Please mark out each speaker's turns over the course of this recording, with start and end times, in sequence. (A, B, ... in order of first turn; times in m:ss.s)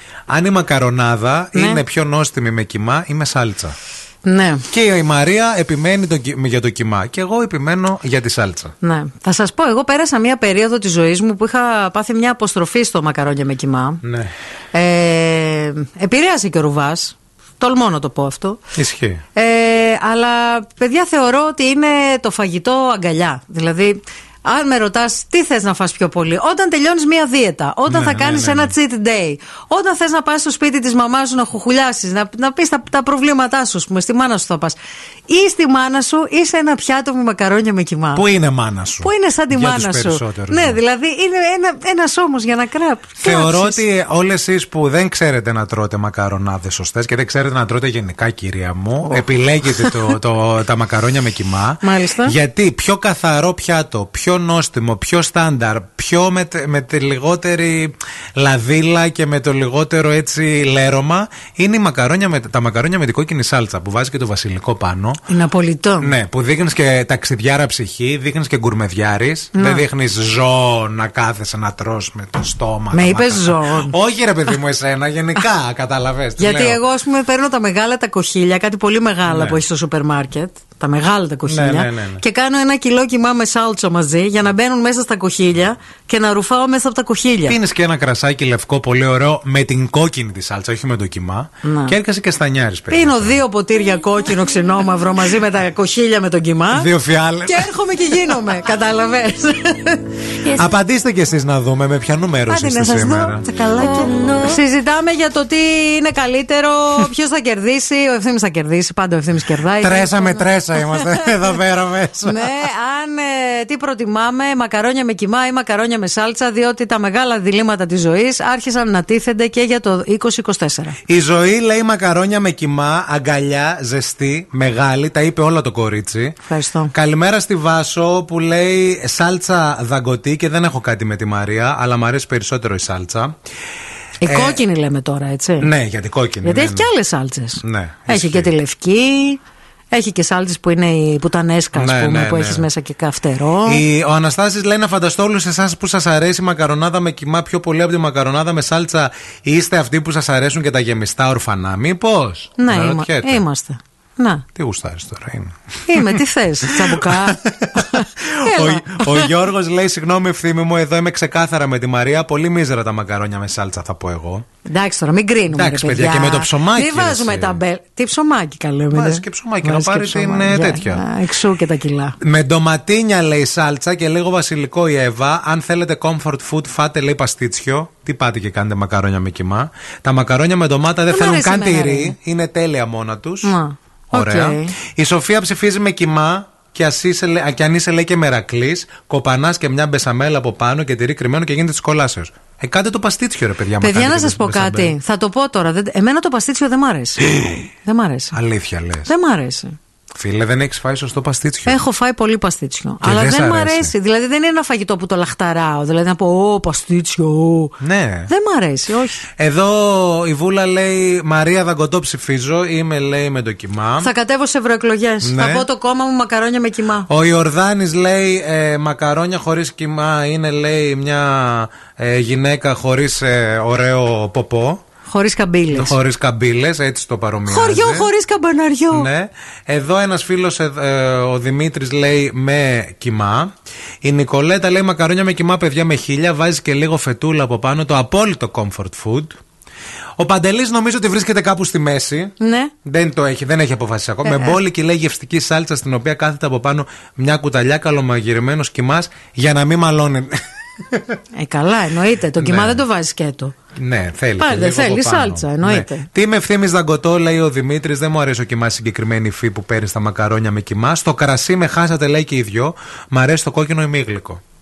0:00.3-0:03.7 A
0:01.5-0:01.8 B
0:04.2-0:04.6 B
0:04.7-0:08.7 A
0:08.8-0:14.0 B
0:14.0-0:14.3 A
0:14.7-0:18.6 B
0:18.7-0:19.2 A
0:19.3-0:38.2 B
0:27.9-0:28.7 A
0:38.1-0:40.8 A
0:39.0-0:43.8 B
0:43.2-1:05.2 A
0:49.0-0:50.1 B
0:51.8-0:52.3 B
1:05.3-1:06.1 B
1:06.0-1:16.8 A
1:09.5-1:09.8 B
1:12.9-1:13.9 B
1:16.4-1:27.6 B
1:19.3-1:19.6 A
1:21.5-1:22.2 A
1:27.4-1:33.4 A
1:31.6-1:31.9 B
1:32.9-1:36.9 B
1:36.7-1:37.7 A
1:37.4-1:40.7 B
1:40.4-1:43.4 A
1:42.5-1:51.6 B
1:49.8-1:52.6 A
1:52.2-2:01.0 B
2:01.0-2:06.4 A
2:06.5-2:06.9 B
2:06.9-2:13.3 A
2:14.2-2:15.7 B
2:14.2-2:14.6 A
2:15.6-2:16.9 A
2:16.4-2:23.8 B
2:17.6-2:18.5 A
2:21.8-2:22.6 A
2:23.6-2:33.4 A
2:32.6-2:34.4 B
2:34.5-2:44.4 A
2:35.9-2:39.3 B
2:44.6-2:52.2 B
2:45.5-2:47.6 A
2:48.9-2:51.0 A
2:52.2-3:03.5 A
3:01.1-3:02.1 B
3:03.4-3:04.7 B
3:04.1-3:14.9 A
3:13.8-3:18.4 B
3:18.3-3:19.1 A
3:19.1-3:19.7 B
3:20.1-3:21.8 A
3:21.6-3:27.7 B
3:23.0-3:23.9 A
3:27.8-3:28.3 A
3:28.3-3:29.2 B
3:29.4-3:34.1 A
3:34.0-3:37.1 B
3:35.2-3:35.6 A
3:37.1-3:44.8 A
3:45.1-3:46.0 B
3:45.7-3:48.1 A
3:47.4-3:49.1 B
3:48.9-3:53.5 A
3:54.0-3:59.4 A
4:00.2-4:02.3 A
4:02.4-4:02.7 B
4:02.8-4:10.4 A
4:04.2-4:04.5 B
4:10.9-4:11.2 A
4:11.3-4:13.5 B
4:12.4-4:12.8 A
4:13.7-4:24.4 A
4:14.4-4:16.1 B